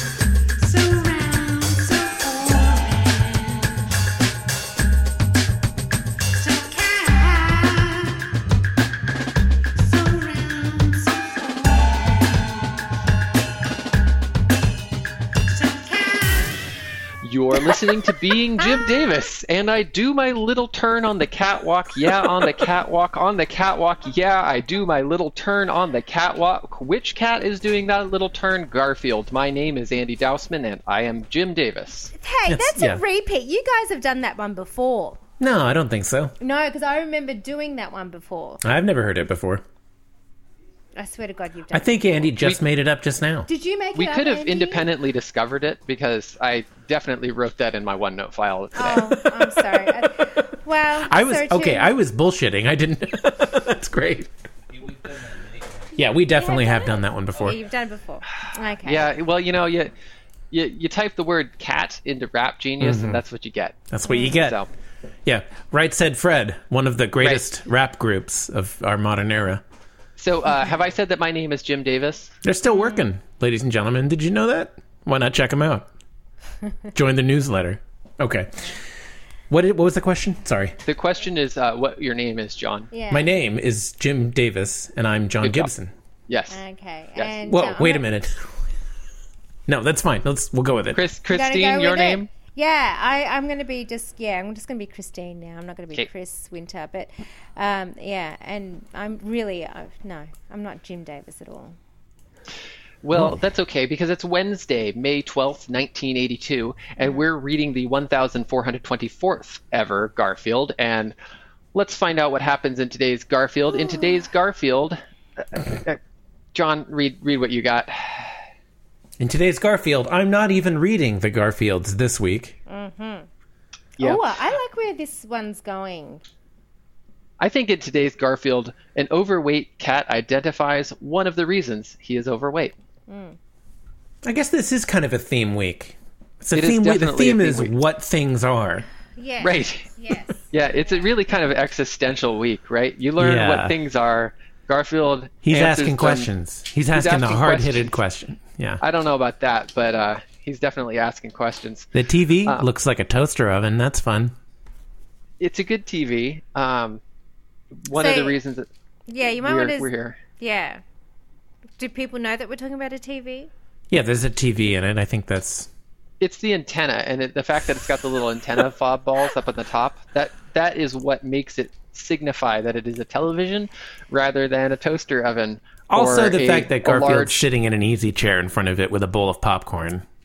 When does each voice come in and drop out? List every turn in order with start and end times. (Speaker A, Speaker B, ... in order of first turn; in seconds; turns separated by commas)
Speaker A: 0.6-3.8, Speaker A: 6.4-8.2, Speaker A: 9.8-11.9, Speaker A: 15.6-16.5, Speaker B: 17.2-32.1, Speaker A: 32.2-35.2, Speaker C: 32.5-33.0, Speaker C: 35.4-36.3, Speaker A: 36.4-38.6, Speaker C: 38.6-39.6, Speaker A: 41.0-42.3, Speaker C: 41.7-43.5, Speaker A: 43.5-44.9, Speaker B: 44.0-49.0, Speaker A: 48.8-51.9, Speaker C: 48.9-49.9, Speaker C: 51.0-54.3, Speaker C: 56.0-57.6, Speaker A: 56.3-59.1, Speaker B: 58.8-59.9, Speaker B: 60.5-64.7, Speaker C: 62.8-63.2, Speaker C: 63.9-64.6, Speaker A: 64.0-64.3, Speaker C: 65.3-69.6, Speaker B: 70.2-72.3, Speaker C: 72.4-75.8, Speaker A: 72.7-73.0, Speaker C: 76.9-78.7, Speaker C: 79.5-80.8, Speaker B: 80.9-82.9, Speaker A: 82.9-83.3, Speaker C: 83.1-85.9, Speaker B: 85.4-85.7, Speaker B: 86.3-86.6, Speaker A: 86.5-88.1, Speaker B: 87.2-87.4, Speaker C: 87.5-88.4, Speaker C: 89.7-91.0, Speaker B: 90.9-92.3, Speaker A: 91.3-101.8, Speaker B: 103.0-111.2, Speaker A: 107.0-107.3, Speaker B: 111.7-116.0, Speaker B: 116.5-118.4, Speaker C: 119.2-122.5, Speaker A: 122.7-123.3, Speaker B: 124.0-124.2, Speaker A: 124.0-126.2, Speaker B: 127.4-132.8, Speaker A: 133.1-133.4, Speaker C: 134.2-138.9, Speaker B: 136.5-137.8, Speaker A: 139.2-141.1, Speaker B: 139.4-139.9, Speaker B: 140.5-146.3, Speaker C: 143.2-143.8, Speaker C: 145.4-148.8, Speaker B: 146.9-148.0, Speaker B: 148.8-151.9, Speaker C: 151.9-154.3, Speaker B: 155.4-157.0, Speaker B: 157.9-158.7, Speaker A: 157.9-158.4, Speaker A: 159.1-160.8, Speaker B: 159.3-160.2, Speaker A: 161.8-163.5, Speaker C: 163.9-165.7, Speaker B: 166.2-177.5, Speaker C: 175.9-180.0